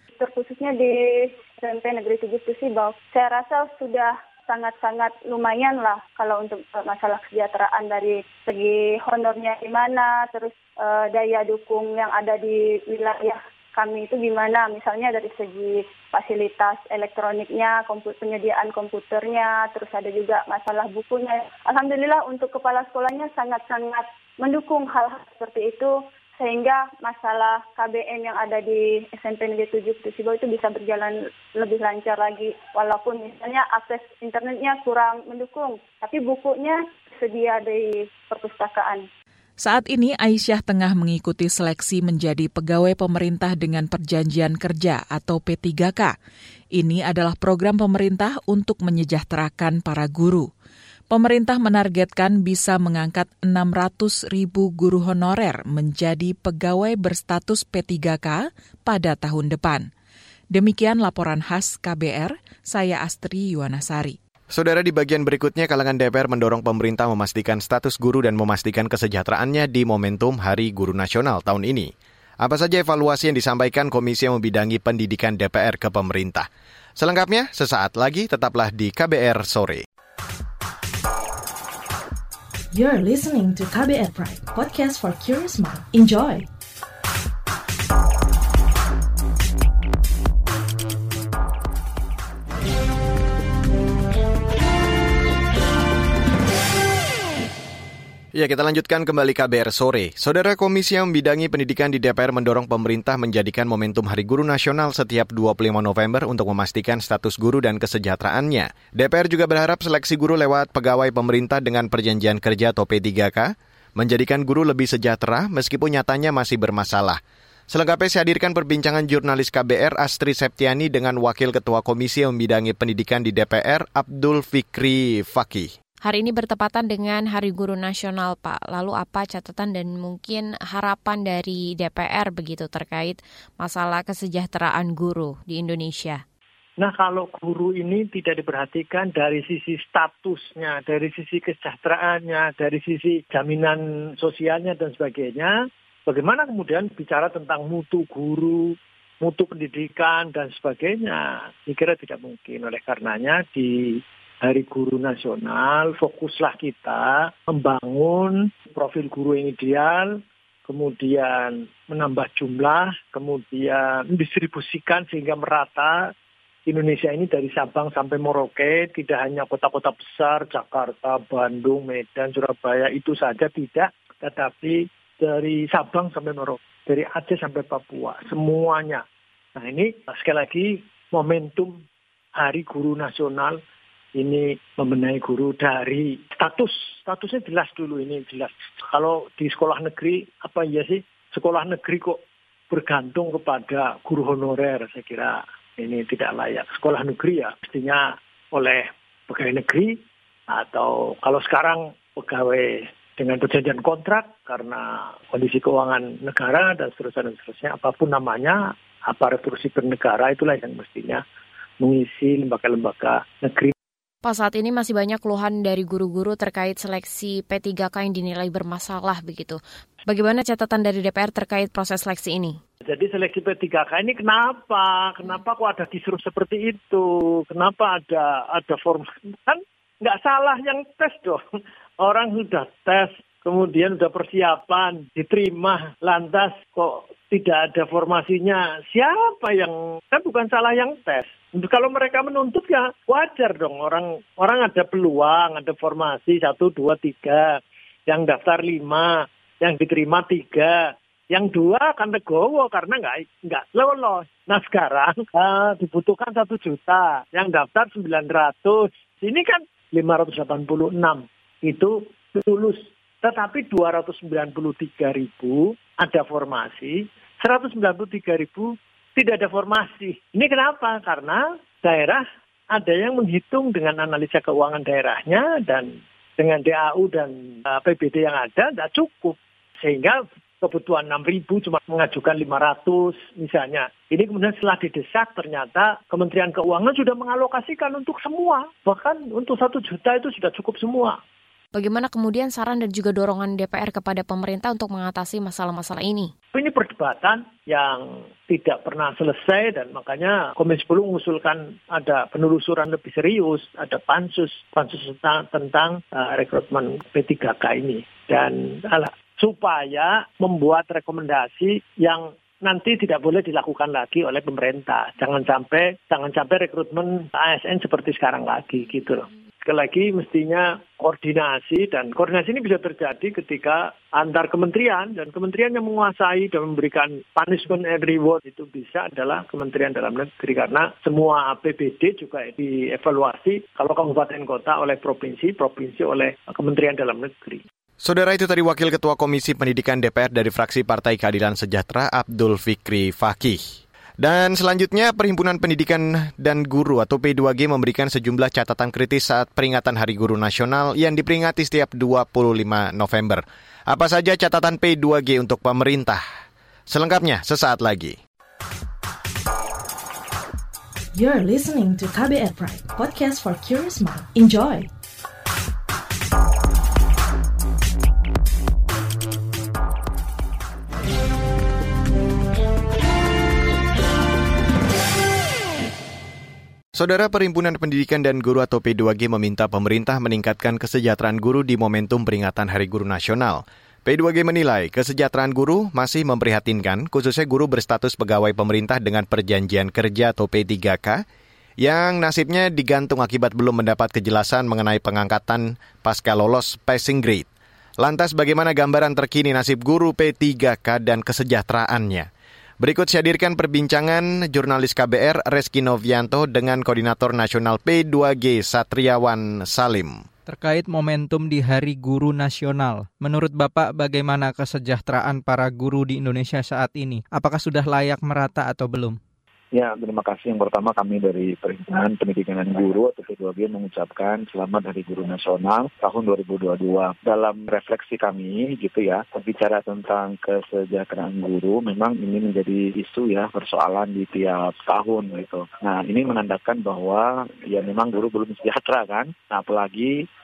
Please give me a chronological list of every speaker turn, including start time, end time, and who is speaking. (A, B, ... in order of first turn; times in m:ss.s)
0:00.2-0:39.0 A
0:39.6-0:46.1 B
0:46.8-0:50.5 B
0:51.1-0:59.9 B
1:00.5-1:04.2 B
1:04.5-1:19.8 C
1:22.7-1:26.5 D
1:38.3-2:05.7 C
2:06.0-2:16.2 E
2:16.8-2:46.1 F
2:46.7-2:59.0 F
2:59.6-3:01.8 F
3:02.4-3:03.6 F
3:04.2-3:31.2 F
3:31.8-3:33.7 F
3:34.2-3:42.6 E
3:42.8-3:51.4 F
3:52.0-4:51.2 F
4:51.8-4:56.3 E
4:56.5-5:37.6 F
5:38.0-5:56.2 C
5:56.9-5:58.2 C
6:01.1-6:04.9 D
6:17.0-6:31.2 C
6:31.8-6:37.5 C
6:38.0-6:42.3 C
6:42.8-6:50.2 C
6:50.5-6:59.2 G
6:59.7-7:20.1 H